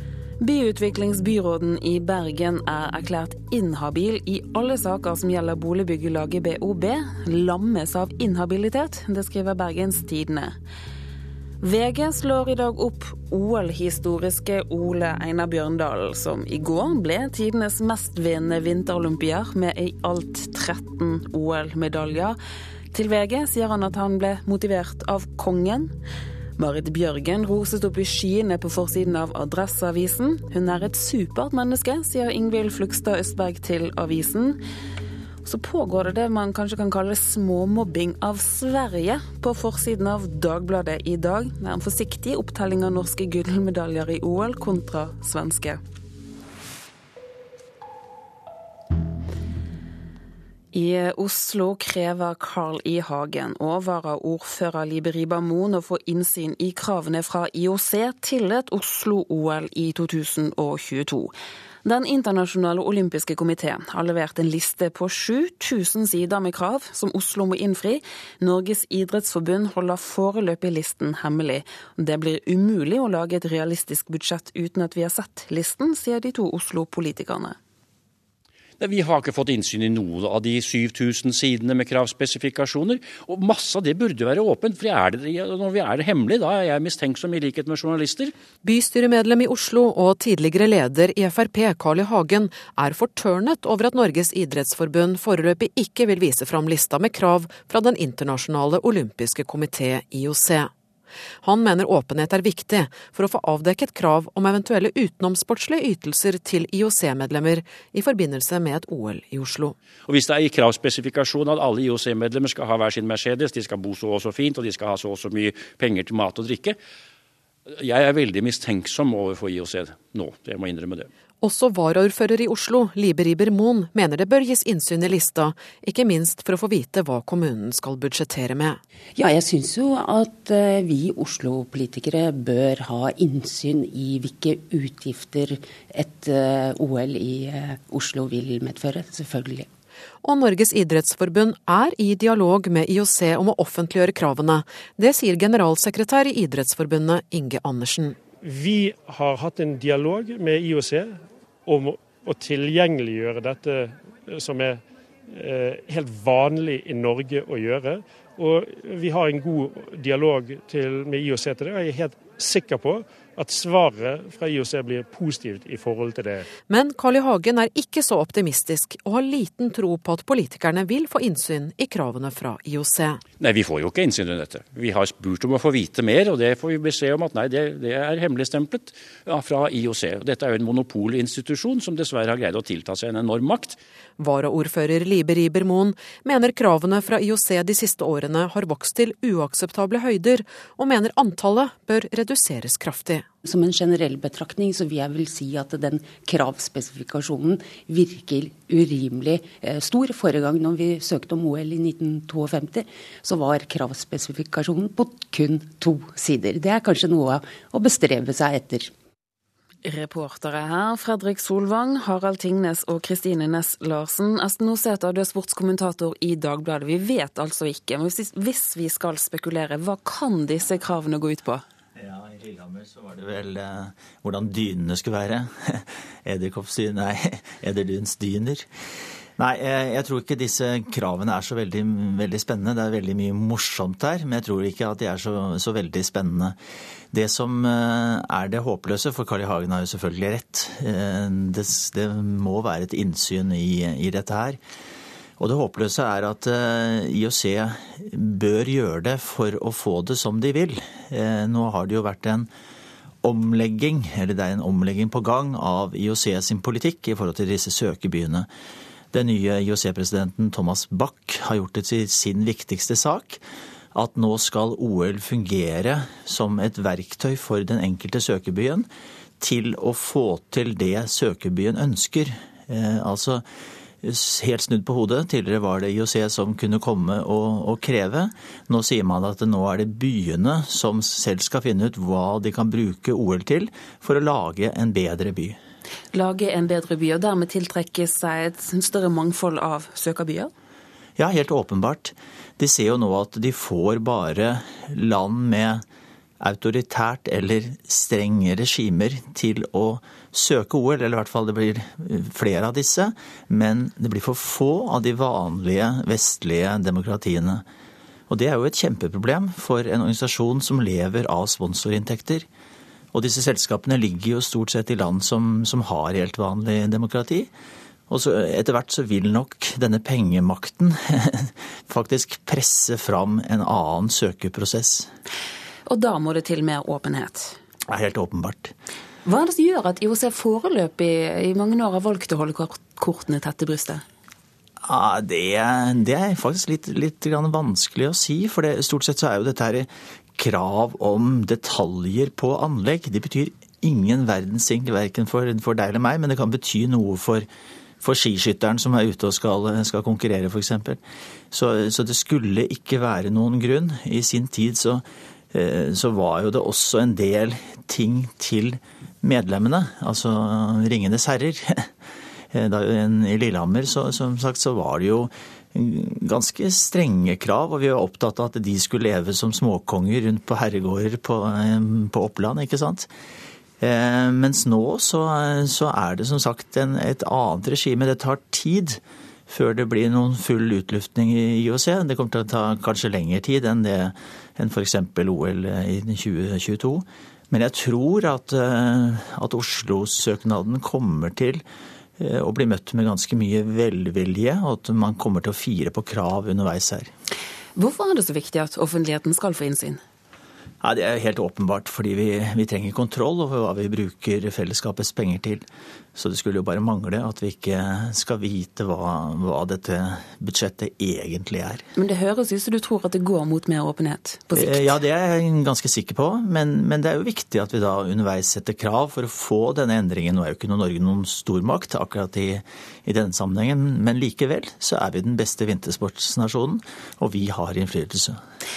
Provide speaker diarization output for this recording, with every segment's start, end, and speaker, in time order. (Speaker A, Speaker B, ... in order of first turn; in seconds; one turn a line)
Speaker A: 0.4-10.5
Speaker A: 11.6-22.4
Speaker A: 22.9-25.9
Speaker A: 26.6-34.6
Speaker A: 35.4-45.8
Speaker A: 50.7-77.5
Speaker B: 78.8-88.3
Speaker C: 88.6-100.7
Speaker C: 101.4-109.8
Speaker B: 110.1-116.7
Speaker B: 117.9-121.0
Speaker C: 121.4-128.8
Speaker D: 129.2-139.7
Speaker C: 140.2-148.2
Speaker E: 148.4-166.5
Speaker C: 166.7-173.2
Speaker C: 184.2-193.2
Speaker D: 193.4-208.9
Speaker A: 209.8-221.6
Speaker F: 221.9-228.7
Speaker F: 229.4-236.6
Speaker F: 237.1-244.6
Speaker F: 245.4-252.5
Speaker F: 253.2-258.5
Speaker F: 259.1-263.4
Speaker F: 263.9-268.9
Speaker F: 269.4-273.4
Speaker F: 274.0-285.6
Speaker A: 286.1-290.5
Speaker F: 291.2-295.8
Speaker F: 296.4-307.6
Speaker F: 308.3-312.5
Speaker F: 313.1-317.5
Speaker F: 318.1-325.1
Speaker A: 325.9-327.6
Speaker F: 327.9-328.7
Speaker A: 329.2-334.0
Speaker F: 334.8-347.5
Speaker F: 348.0-361.9
Speaker F: 362.5-373.1
Speaker F: 373.8-391.6
Speaker F: 392.2-397.1
Speaker A: 397.8-400.0
Speaker F: 400.8-411.8
Speaker A: 411.9-415.0
Speaker F: 414.5-428.4